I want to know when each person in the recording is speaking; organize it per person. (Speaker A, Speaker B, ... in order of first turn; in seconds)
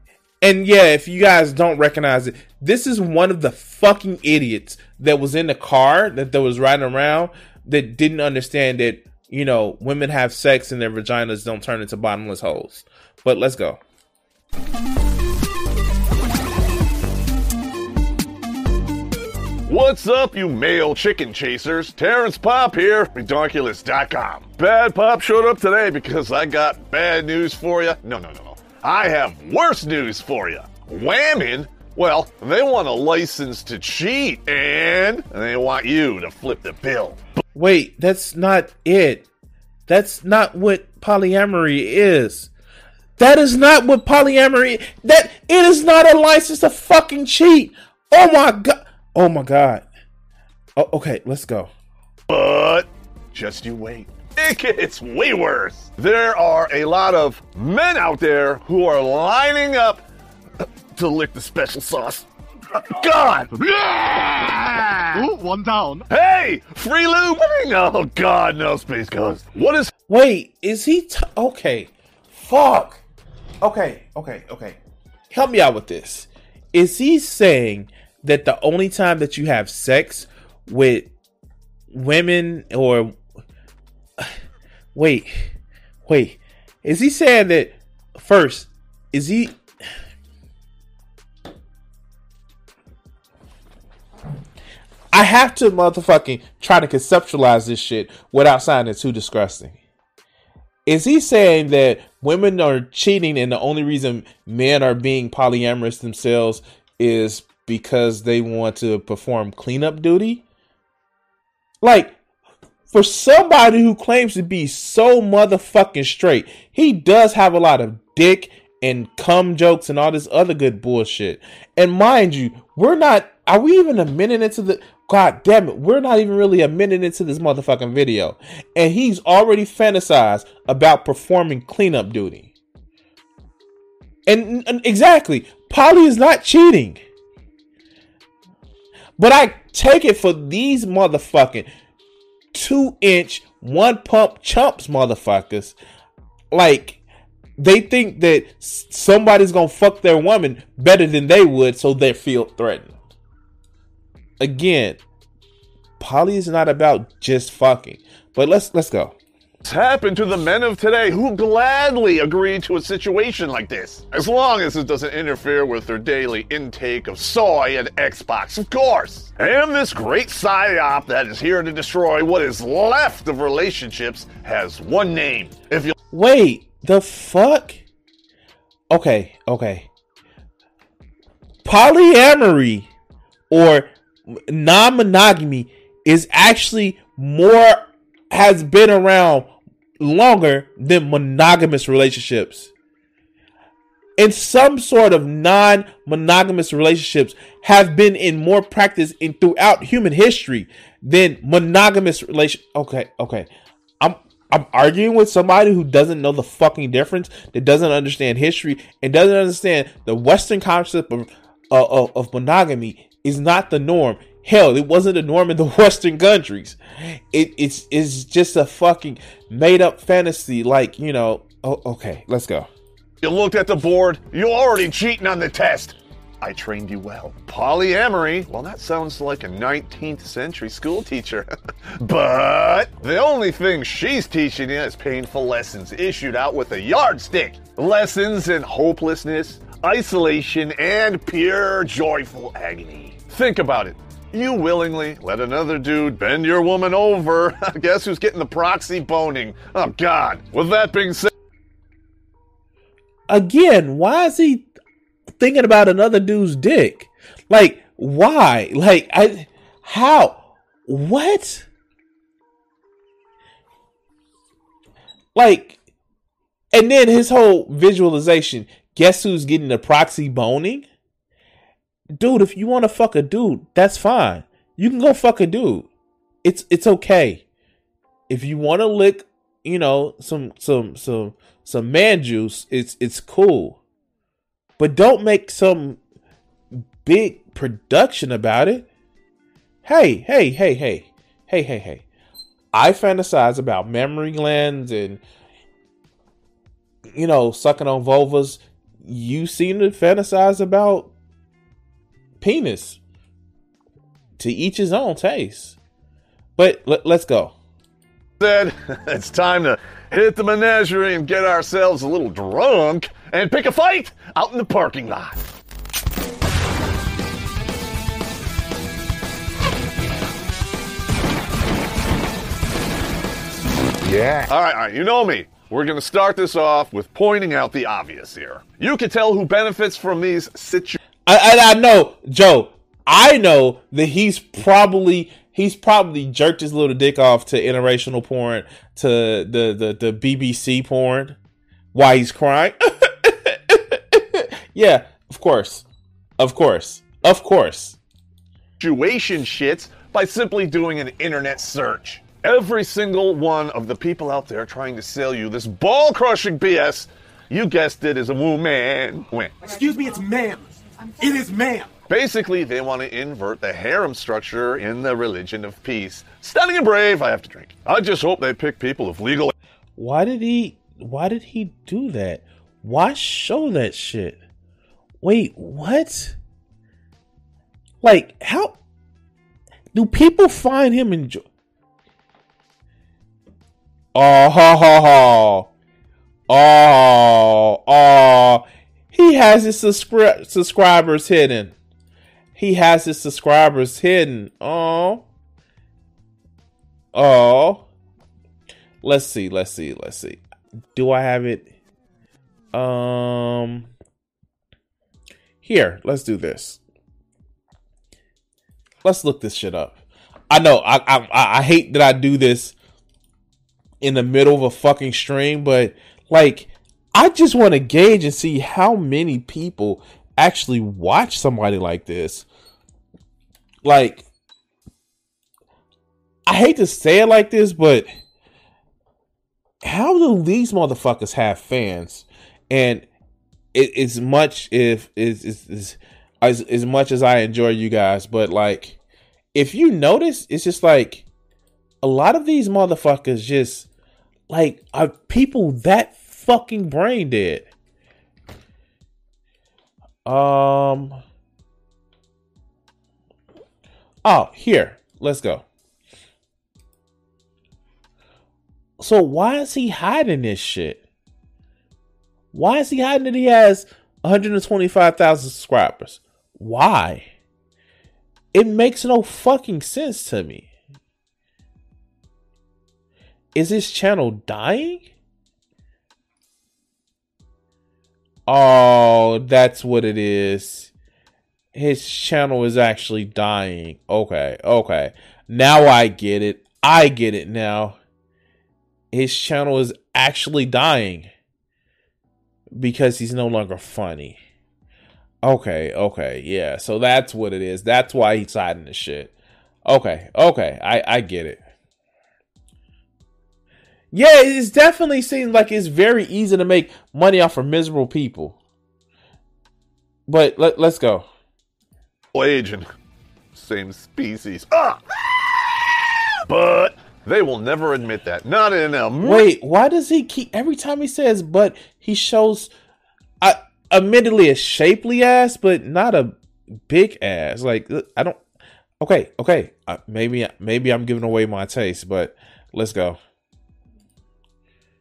Speaker A: 0.4-13.8, 37.5-39.3, 39.9-42.5, 43.2-49.9, 50.8-51.7, 70.1-73.0, 73.6-81.1, 81.9-83.2, 84.9-89.6, 95.1-99.8, 100.9-110.4, 111.8-112.2, 112.9-132.5, 134.3-137.0, 139.2-141.7, 142.5-145.8, 146.5-147.0, 147.6-152.9, 154.4-155.0, 156.0-159.2, 176.1-177.8, 178.9-179.9, 181.6-182.9, 183.5-192.7, 194.2-203.5, 204.0-222.7, 253.3-254.7, 255.4-261.7, 265.4-265.8, 266.7-270.9, 272.1-275.9, 276.4-277.4, 278.3-283.8, 284.8-286.0, 286.8-288.9, 289.8-292.0, 292.7-295.2, 297.1-301.1, 302.4-303.0, 304.4-305.8, 306.6-307.6, 331.3-341.4, 341.9-345.9, 346.4-348.0, 370.0-374.4, 375.2-376.4, 378.0-378.8, 379.9-381.4, 384.1-385.7, 386.5-391.7, 392.6-395.2, 397.1-397.9, 399.0-400.4, 400.9-401.7, 402.7-403.9, 405.6-406.8, 409.0-410.0, 410.5-412.8, 414.0-422.5, 423.8-424.3, 426.5-428.1, 429.8-433.1, 433.7-439.0, 439.5-441.3, 442.0-443.9, 444.5-447.7, 450.2-451.2, 454.2-455.6, 459.0-461.0, 462.5-467.3, 468.5-470.7, 473.6-475.1, 478.5-480.9, 481.7-488.0, 489.1-491.3, 492.8-494.4, 495.4-499.3, 499.9-501.6, 504.1-508.6, 510.3-511.3, 519.2-522.7, 523.4-526.4, 526.9-528.4, 529.0-533.2
Speaker B: 19.7-37.2, 52.3-60.0, 61.0-65.5, 66.1-69.9, 159.7-175.9, 223.2-251.3, 308.4-315.4, 324.4-331.0, 348.8-359.8, 362.1-369.5, 512.3-512.9, 513.5-519.5
Speaker C: 63.6-64.2, 65.5-66.0, 359.8-360.6, 361.2-361.8